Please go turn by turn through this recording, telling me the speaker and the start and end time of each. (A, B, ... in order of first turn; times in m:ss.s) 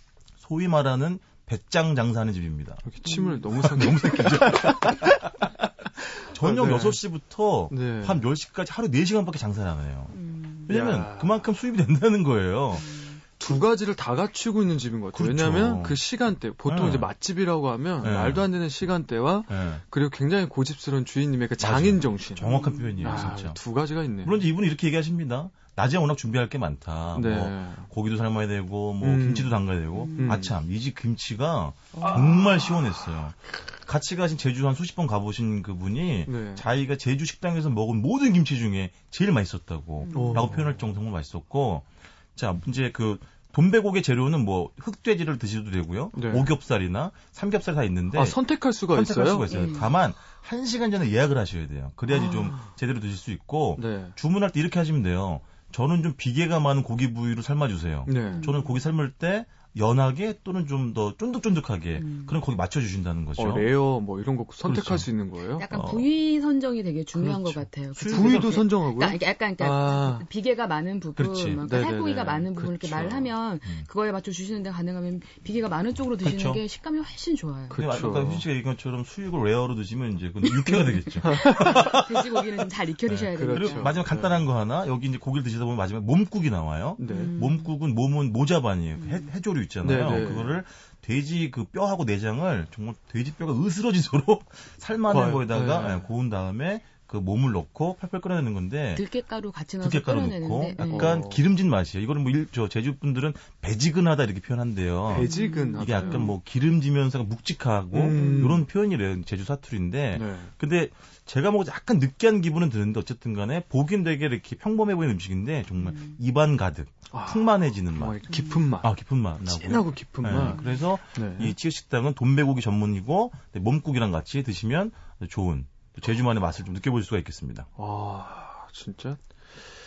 0:00.4-0:02.9 A
0:02.9-0:07.0 B
0:03.1-0:03.4 C
0:03.5-0:05.3 A
0:06.3-0:13.0 A
0:07.7-0:08.2 B
0:10.1-0:10.7 C
0:10.7-0:11.5 B
0:12.8-0:13.2 C
0:13.4-0:24.4 B
0:15.1-0:16.0 A
0:16.7-0:17.1 A
0:18.0-0:18.5 A
0:19.5-0:19.8 A
0:21.6-0:23.6 A
0:22.4-0:23.3 C
0:24.2-0:48.4 A
0:27.1-0:27.9 B
0:29.0-0:30.6 B
0:30.0-0:30.4 C
0:32.0-0:32.9 B
0:36.3-0:36.6 B
0:40.0-0:40.5 C
0:40.1-0:40.8 B
0:46.1-0:46.5 B
0:48.1-0:49.6 B
0:48.9-1:03.7 A
0:49.5-0:49.9 C
0:52.2-0:52.7 B
0:53.8-0:54.2 B
0:58.1-0:58.5 B
0:58.3-0:58.7 C
1:02.0-1:02.4 C
1:03.4-1:05.7 B
1:04.6-1:05.1 A
1:05.6-1:17.8 C
1:05.7-1:06.1 A
1:07.2-1:08.6 A
1:08.1-1:10.3 B
1:11.2-1:11.6 A
1:11.6-1:13.3 B
1:16.2-1:16.6 A
1:17.7-1:18.5 B
1:17.8-1:22.2 A
1:21.2-1:22.0 B
1:21.4-1:23.9 C
1:23.1-1:39.0 A
1:23.3-1:24.4 B
1:27.0-1:27.3 B
1:27.0-1:27.7 C
1:29.0-1:29.3 C
1:29.8-1:30.6 B
1:35.1-1:36.0 B
1:39.0-1:41.2 C
1:39.8-1:58.2 A
1:40.9-1:41.4 B
1:45.1-1:46.3 B
1:45.2-1:46.3 C
1:47.9-1:48.6 B
1:48.2-1:48.5 C
1:50.2-1:50.5 B
1:55.8-1:56.2 C
1:57.1-2:00.6 B
1:58.8-2:07.7 A
2:00.5-2:00.8 C
2:01.1-2:01.6 B
2:07.8-2:09.2 B